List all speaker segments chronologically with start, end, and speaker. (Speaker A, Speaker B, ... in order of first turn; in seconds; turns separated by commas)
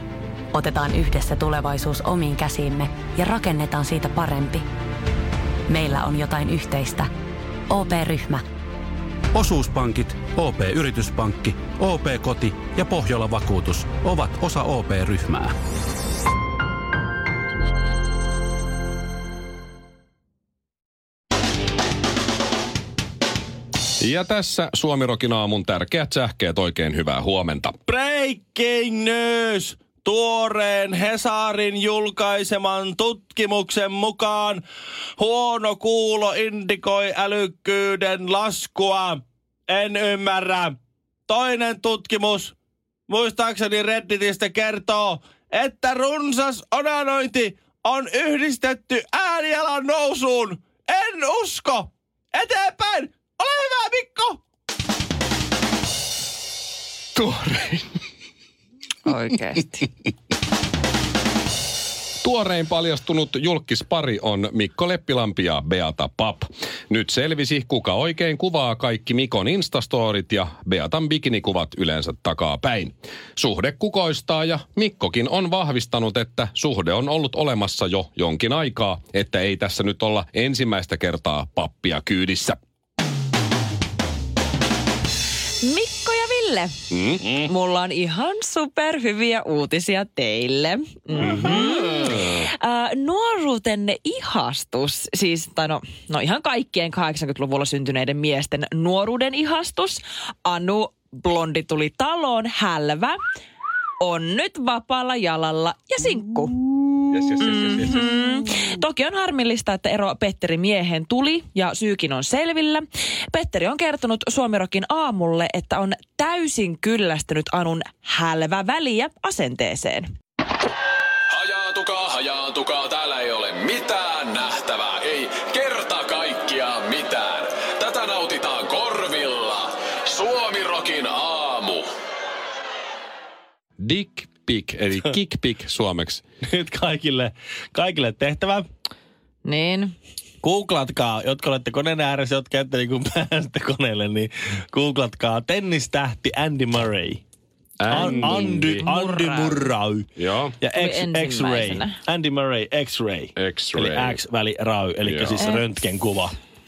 Speaker A: 0.5-4.6, Speaker A: 5.7-7.1, Speaker A: 7.7-8.4, Speaker B: 9.3-15.5, Speaker C: 24.0-27.8, Speaker D: 27.9-34.6, Speaker D: 35.2-40.8, Speaker D: 41.3-42.5, Speaker D: 43.1-54.4, Speaker C: 57.1-57.9, Speaker E: 59.0-59.8, Speaker C: 62.2-82.6, Speaker E: 85.6-86.8, Speaker C: 86.9-87.2, Speaker D: 87.2-87.5, Speaker E: 87.3-103.2, Speaker C: 91.2-92.4, Speaker E: 104.0-120.1, Speaker D: 107.1-107.8, Speaker F: 121.3-131.8, Speaker C: 133.8-136.2, Speaker D: 136.5-138.6, Speaker E: 139.4-139.9, Speaker D: 140.4-147.2, Speaker C: 147.8-148.9, Speaker D: 147.9-150.1, Speaker E: 147.9-149.6, Speaker C: 150.2-150.6, Speaker D: 150.6-156.3, Speaker E: 150.7-152.0, Speaker C: 153.3-154.2, Speaker C: 155.0-155.5, Speaker E: 155.4-155.7